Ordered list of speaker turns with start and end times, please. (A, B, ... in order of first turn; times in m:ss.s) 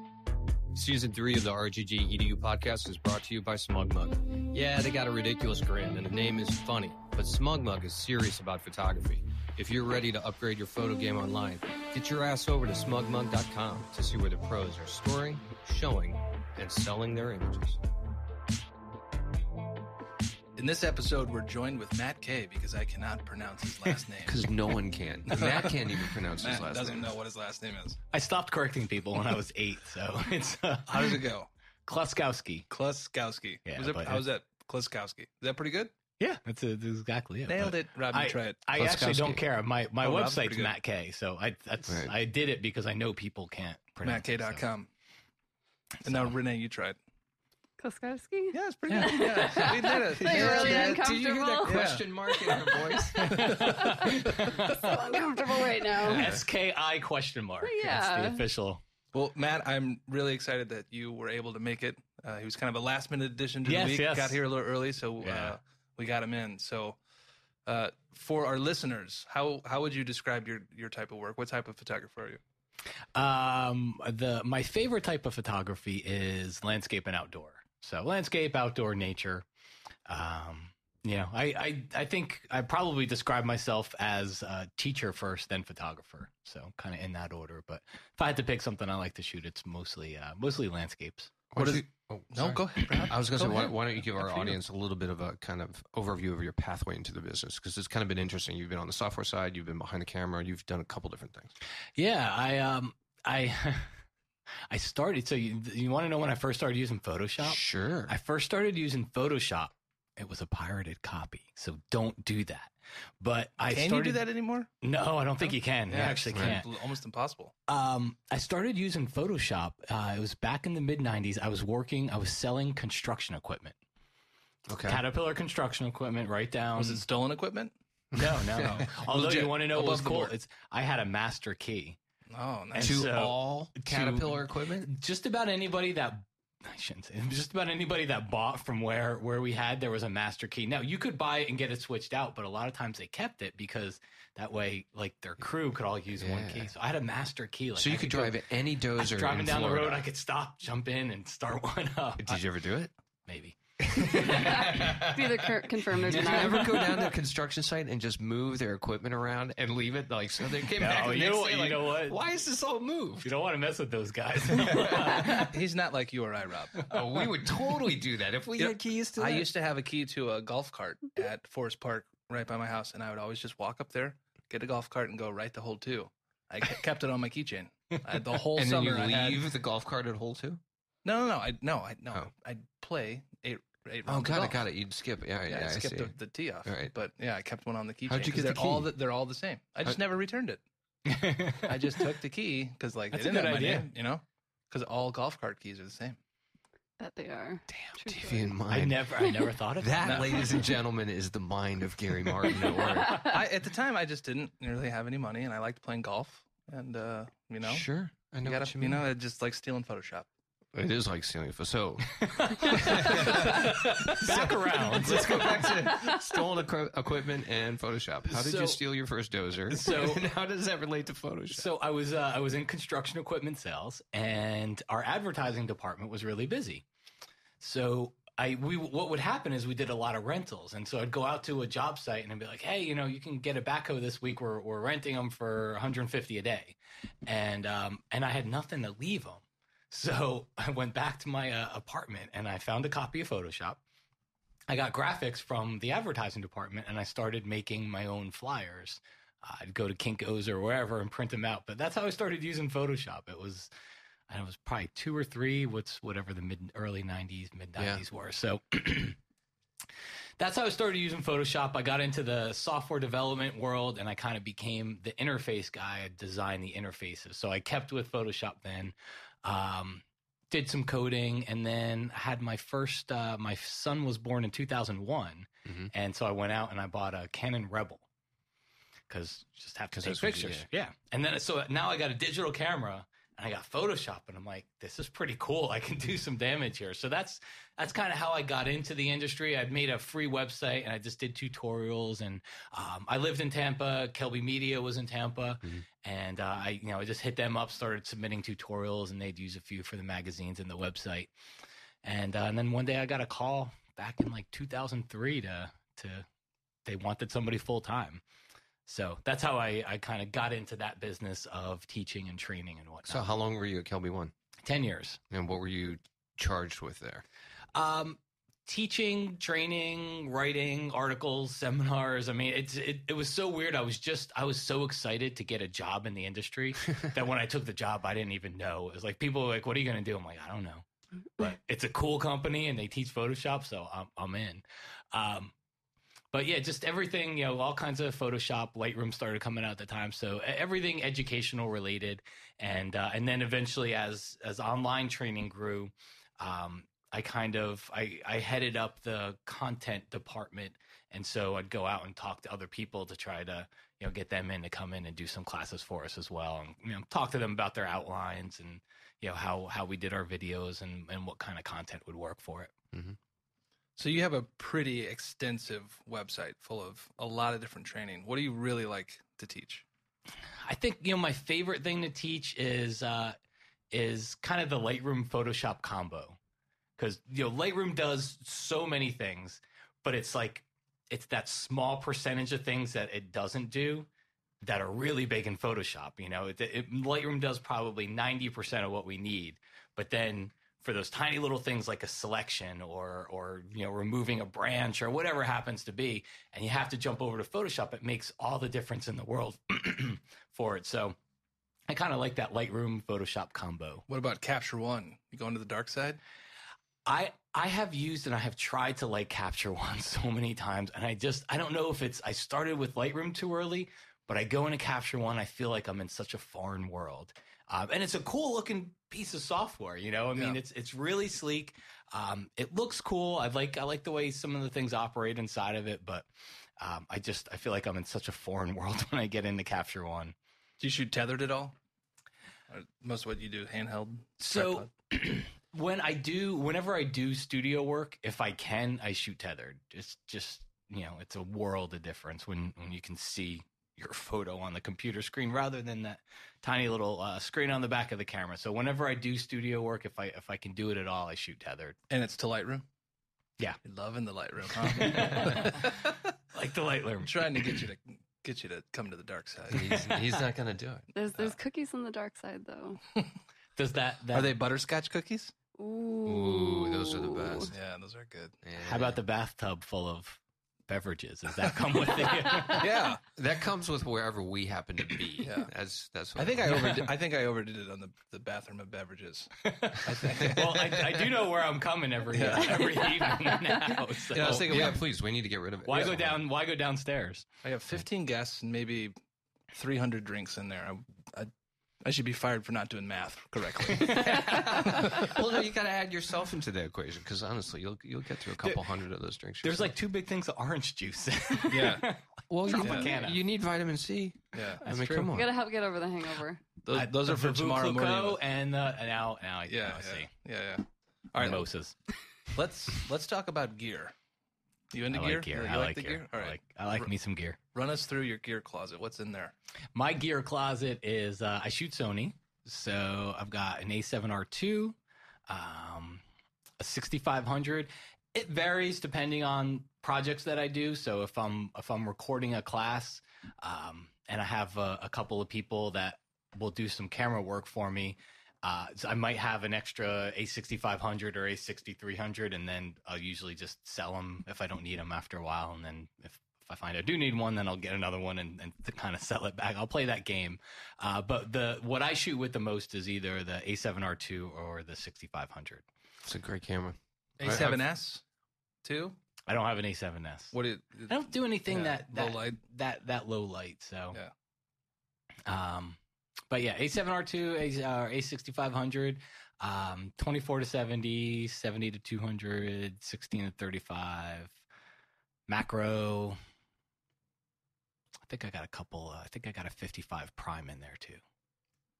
0:00.7-0:17.8 A
0:20.6-0:24.5 B
0:24.2-0:27.1 A
0:25.3-0:28.0 B
0:28.1-0:31.2 C
0:30.9-0:31.5 B
0:31.9-0:32.7 C
0:32.7-0:35.9 B
0:33.6-0:34.2 C
0:36.2-0:44.7 C
0:37.5-0:38.6 B
0:38.7-0:39.4 A
0:40.0-0:40.7 B
0:41.9-0:42.1 A
0:44.0-0:44.9 B
0:46.0-0:47.0 B
0:46.0-0:46.3 C
0:47.8-0:56.3 D
0:48.5-0:51.1 B
0:49.3-0:53.6 A
0:51.6-0:52.0 B
0:53.2-0:55.2 C
0:53.3-0:53.7 B
0:55.9-0:58.8 C
0:56.1-0:56.4 A
0:57.6-0:58.4 D
0:59.1-1:07.0 B
1:03.6-1:04.4 C
1:05.2-1:05.6 C
1:07.6-1:12.4 B
1:13.2-1:19.4 C
1:20.1-1:31.4 C
1:31.5-1:41.5 A
1:31.5-1:34.5 B
1:32.8-1:33.1 C
1:42.0-1:44.0 C
1:44.7-1:54.2 C
1:47.4-1:48.1 A
1:53.6-1:54.7 B
1:54.8-1:56.7 C
1:55.4-1:57.5 B
1:56.3-1:56.6 A
1:57.7-2:03.8 C
2:04.7-2:05.0 A
2:04.8-2:07.0 C
2:06.8-2:07.7 B
2:08.1-2:09.0 A
2:08.1-2:12.0 C
2:08.5-2:10.3 B
2:12.3-2:13.0 B
2:12.7-2:28.4 C
2:12.8-2:14.9 A
2:26.2-2:26.7 A
2:27.8-2:30.0 A
2:29.0-2:32.4 C
2:32.2-2:32.9 A
2:33.3-2:34.9 C
2:33.8-2:43.3 A
2:34.2-2:37.0 D
2:40.8-2:42.2 C
2:43.2-2:45.5 C
2:44.5-2:45.4 A
2:45.0-2:46.9 B
2:46.9-2:49.5 A
2:48.6-2:59.4 B
2:58.5-3:00.6 A
3:01.0-3:04.6 B
3:04.0-3:06.9 A
3:05.4-3:10.6 B
3:08.0-3:08.9 A
3:11.0-3:11.9 C
3:11.6-3:16.2 B
3:13.1-3:13.9 C
3:17.0-3:18.5 D
3:17.9-3:19.0 A
3:18.7-3:20.6 C
3:19.8-3:23.3 A
3:20.0-3:20.5 B
3:23.1-3:23.3 D
3:23.2-3:27.8 B
3:27.6-3:29.0 A
3:28.4-3:30.3 B
3:30.7-3:41.7 A
3:32.2-3:35.9 C
3:38.3-3:38.8 C
3:39.7-3:40.3 C
3:41.5-3:46.8 C
3:47.6-4:03.8 C
4:04.7-4:13.7 C
4:14.3-4:19.2 C
4:17.8-4:18.0 A
4:20.4-4:38.0 C
4:35.6-4:35.9 A
4:39.1-5:01.3 C
4:39.9-4:40.7 A
5:02.0-5:06.2 C
5:06.8-5:08.2 C
5:08.8-5:13.3 C
5:13.1-5:14.3 A
5:14.6-5:15.2 C
5:15.3-5:17.2 A
5:17.7-5:30.8 C
5:31.4-5:35.5 C
5:36.3-6:02.7 C
6:04.0-6:09.8 B
6:10.6-6:13.4 C
6:13.9-6:16.4 C
6:17.0-6:24.1 C
6:24.6-6:41.2 C
6:41.9-6:44.0 C
6:44.1-6:46.2 B
6:47.0-7:06.2 C
7:06.8-7:10.3 C
7:10.8-7:11.7 B
7:12.7-7:14.9 B
7:14.4-7:32.0 C
7:32.1-7:32.8 B
7:33.8-7:36.1 B
7:34.8-7:36.0 C
7:36.5-7:37.8 C
7:37.2-7:40.3 B
7:39.7-7:41.1 A
7:41.1-7:43.0 D
7:43.8-7:44.5 C
7:44.3-7:45.5 B
7:45.8-7:47.7 D
7:46.2-7:47.7 A
7:47.7-7:48.6 B
7:48.6-7:49.2 A
7:48.8-7:52.9 C
7:52.6-7:53.2 B
7:53.4-7:57.0 A
7:55.4-7:55.7 B
7:56.4-8:01.4 B
7:59.6-8:05.0 C
8:02.3-8:03.0 B
8:02.8-8:03.5 D
8:04.3-8:05.0 B
8:04.3-8:06.4 A
8:05.8-8:07.4 C
8:07.6-8:09.1 B
8:09.7-8:11.5 B
8:12.0-8:15.3 B
8:14.0-8:15.2 C
8:14.2-8:19.9 A
8:19.6-8:23.4 C
8:21.7-8:22.1 B
8:22.5-8:25.5 A
8:22.7-8:23.1 B
8:24.5-8:24.8 B
8:24.8-8:25.3 C
8:25.3-8:26.6 D
8:26.8-8:28.4 B
8:26.9-8:30.3 C
8:29.7-8:31.6 B
8:31.4-8:31.9 C
8:32.5-8:34.1 B
8:34.9-8:37.1 B
8:35.1-8:37.6 C
8:37.7-8:39.5 B
8:39.9-8:45.0 C
8:45.5-8:46.2 C
8:46.8-9:15.8 C
9:16.2-9:17.7 A
9:17.4-9:18.2 B
9:17.4-9:17.8 C
9:18.8-9:19.2 B
9:19.5-9:20.5 C
9:20.5-9:22.6 B
9:21.1-9:24.2 C
9:25.5-9:26.0 C
9:26.5-9:34.6 C
9:35.5-9:36.4 C
9:38.3-9:41.2 C